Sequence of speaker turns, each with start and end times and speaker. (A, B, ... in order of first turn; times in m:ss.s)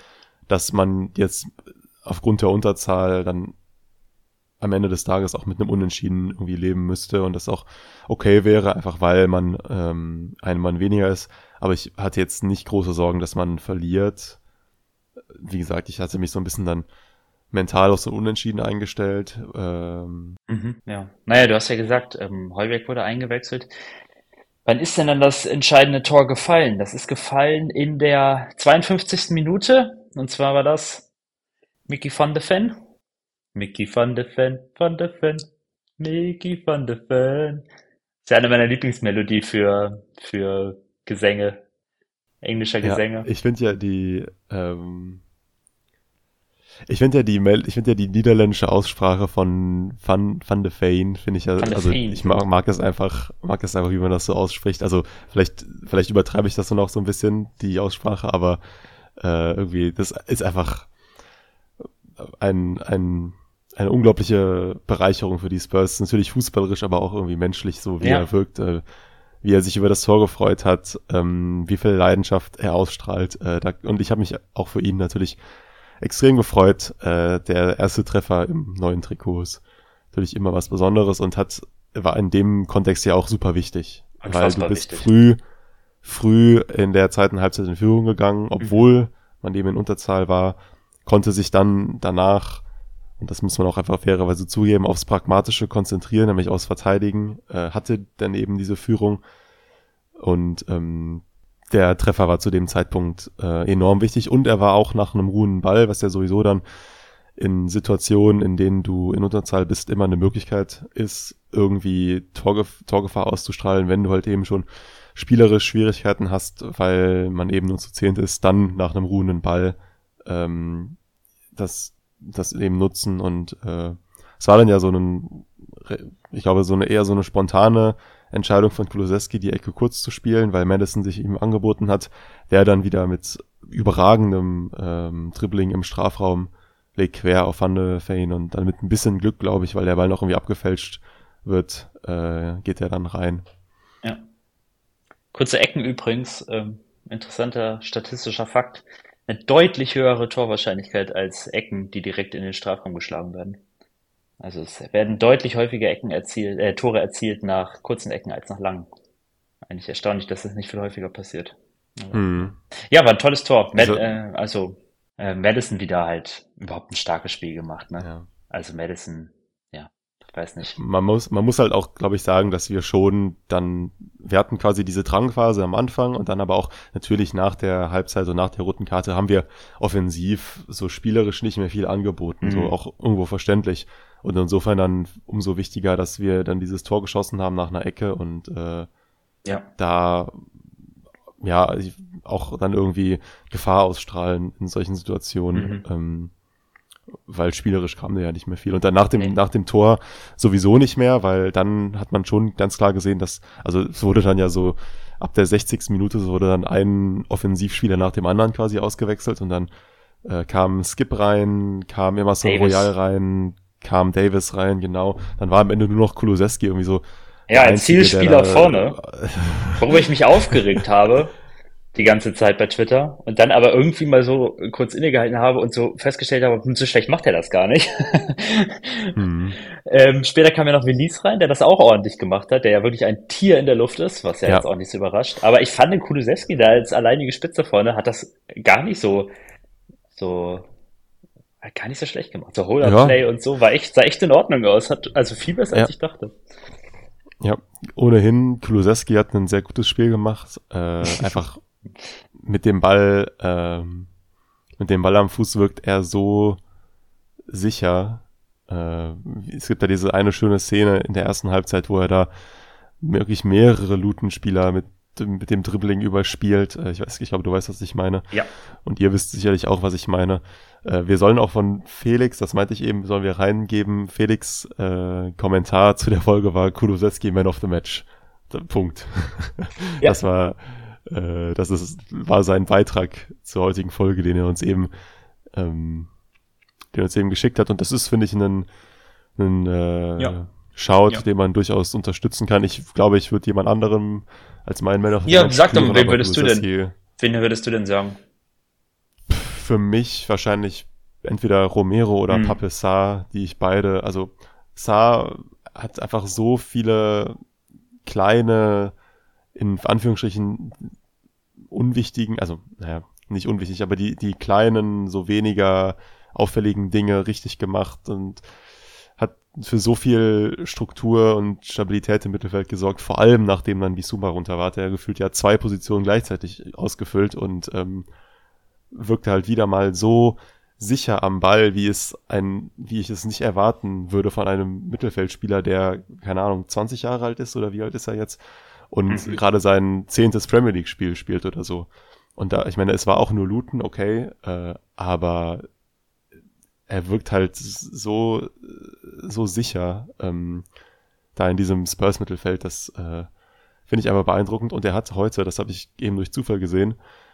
0:00.5-0:03.6 A
0:04.6-0:14.4 A
0:15.3-0:16.9 A
0:17.5-0:20.4 A
0:20.5-0:23.7 B
0:24.7-0:31.1 B
0:31.9-0:32.8 B
0:33.5-0:35.5 B
0:36.0-0:37.6 B
0:38.2-0:41.6 B
0:42.4-0:43.3 B
0:42.8-0:45.2 A
0:46.9-0:58.6 A
0:51.6-0:52.5 B
0:59.2-1:00.9 A
1:02.2-1:08.8 A
1:08.0-1:08.3 B
1:09.4-1:15.4 A
1:16.0-1:19.6 A
1:20.1-1:25.4 A
1:24.2-1:25.1 B
1:26.0-1:32.6 A
1:33.2-1:39.2 A
1:40.2-1:46.6 A
1:47.4-2:01.0 A
2:01.6-2:23.4 A
2:25.3-2:33.6 B
2:34.4-2:38.9 B
2:39.7-2:50.8 B
2:42.1-2:42.5 A
2:43.8-2:44.0 A
2:48.0-2:48.3 A
2:50.8-3:08.9 A
3:02.4-3:02.8 B
3:09.8-3:10.4 A
3:11.4-3:16.3 A
3:15.5-3:15.8 B
3:17.3-3:29.7 A
3:30.2-3:39.9 A
3:32.4-3:32.9 B
3:37.5-3:39.0 B
3:39.8-3:41.3 B
3:41.9-3:49.2 B
3:49.2-3:49.6 A
3:49.7-3:59.3 B
4:00.1-4:00.7 B
4:01.6-4:06.4 B
4:02.8-4:03.2 A
4:07.4-4:11.6 A
4:11.0-4:11.3 B
4:12.4-4:14.1 A
4:14.8-4:16.6 A
4:17.5-4:22.3 A
4:23.0-4:28.3 A
4:28.8-4:44.9 A
4:45.5-4:46.1 A
4:46.9-4:48.7 A
4:49.4-4:56.9 A
4:55.3-4:56.7 B
4:57.2-4:58.2 B
4:59.3-5:07.4 A
5:02.3-5:02.6 B
5:08.0-5:08.9 A
5:09.6-5:10.9 A
5:11.7-5:18.4 A
5:19.2-5:28.1 A
5:28.9-5:45.7 A
5:39.1-5:39.4 B
5:46.9-5:50.7 A
5:51.4-5:53.3 A
5:53.9-5:57.0 A